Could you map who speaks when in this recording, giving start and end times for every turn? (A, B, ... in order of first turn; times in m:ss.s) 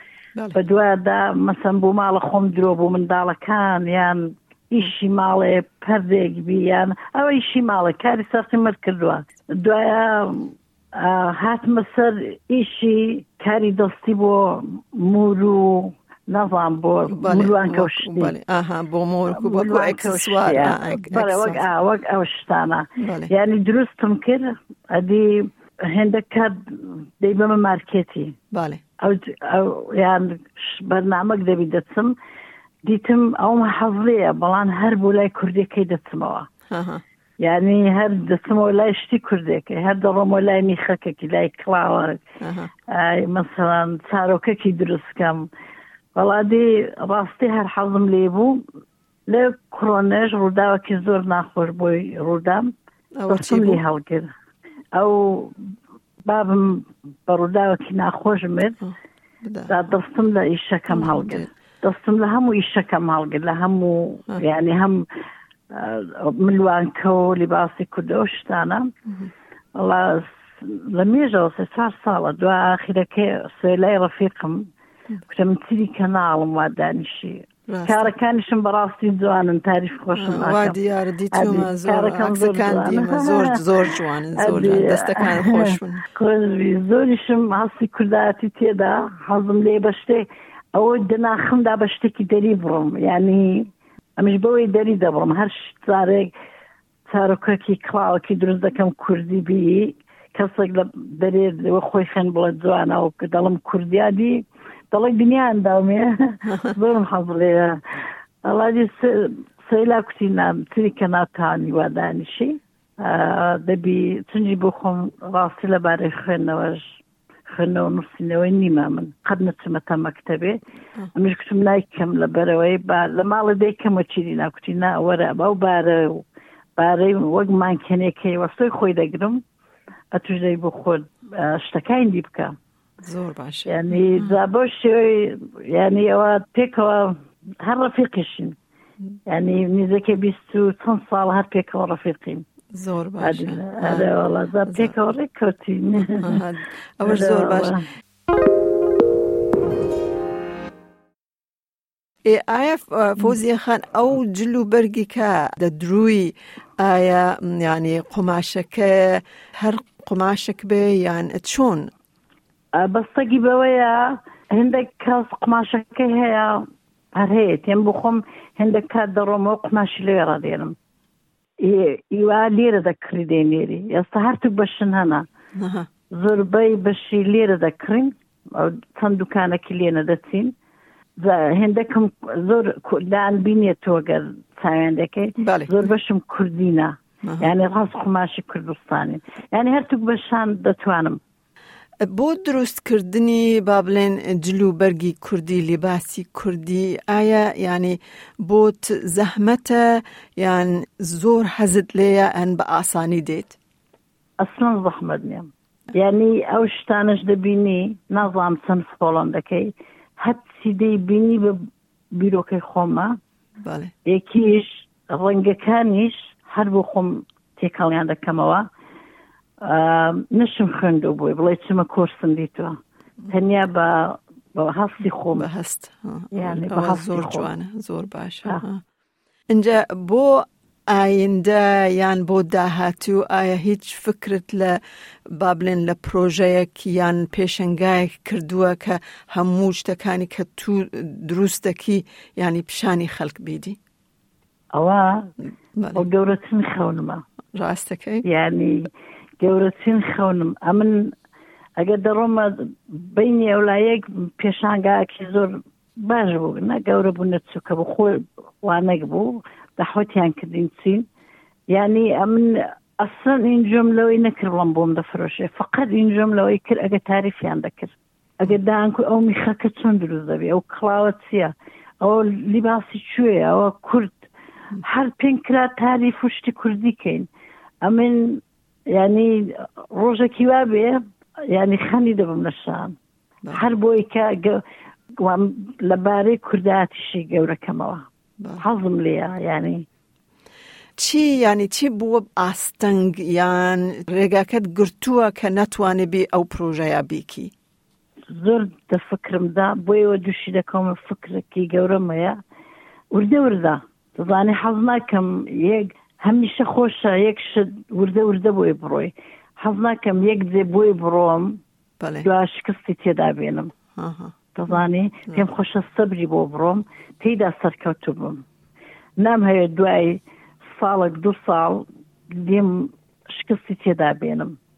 0:00.6-0:18.3 A
0:17.1-0:21.6 B
0:19.3-0:28.4 A
0:23.0-0:23.3 B
0:28.5-0:28.8 B
0:29.0-0:32.2 A
0:32.8-0:36.5 A
0:36.7-0:37.0 B
0:37.4-0:42.2 A
0:42.4-0:42.7 B
0:42.9-0:45.5 A
0:46.2-0:48.6 A
0:49.3-0:52.7 A
0:53.2-0:53.8 B
0:53.3-0:54.3 A
0:55.0-0:55.6 A
0:56.3-0:58.8 A
0:59.4-0:59.8 B
0:59.7-1:05.1 A
1:00.9-1:01.5 B
1:05.7-1:08.9 A
1:09.8-1:14.7 A
1:15.3-1:20.8 A
1:17.7-1:18.1 B
1:20.2-1:26.0 B
1:21.3-1:23.6 A
1:24.4-1:36.3 A
1:37.1-1:47.8 A
1:48.4-2:00.6 A
2:01.1-2:06.2 A
2:06.8-2:09.4 A
2:10.1-2:12.5 A
2:13.0-2:14.4 B
2:13.7-2:18.6 A
2:19.3-2:22.5 A
2:22.7-2:24.1 B
2:23.2-2:26.4 A
2:26.2-2:27.8 B
2:27.0-2:27.8 A
2:32.2-2:41.9 B
2:42.7-2:50.8 A
2:51.6-2:55.3 A
2:55.6-2:55.9 B
2:56.1-3:00.5 A
3:01.2-3:11.2 A
3:05.4-3:05.8 B
3:07.2-3:07.5 B
3:12.0-3:23.6 B
3:24.4-3:31.6 A
3:32.2-3:33.2 A
3:33.6-3:33.9 B
3:34.0-3:38.7 A
3:39.6-3:42.8 A
3:43.3-3:45.5 A
3:45.4-3:48.8 B
3:46.3-3:47.5 A
3:49.5-3:54.8 B
3:55.3-4:03.8 B
4:04.7-4:05.3 A
4:05.9-4:07.2 A
4:07.5-4:08.2 B
4:08.2-4:08.9 A
4:09.4-4:11.1 A
4:11.8-4:21.1 A
4:21.7-4:34.2 A
4:34.8-4:37.3 A
4:37.8-4:43.0 A
4:43.5-4:44.6 A
4:45.2-4:48.0 A
4:48.6-4:49.9 A
4:51.0-4:57.5 B
4:58.3-5:02.4 A
5:03.1-5:11.6 A
5:12.0-5:12.3 B
5:12.2-5:13.8 A
5:14.0-5:14.3 B
5:14.6-5:18.4 A
5:19.2-5:20.2 A
5:20.8-5:24.6 A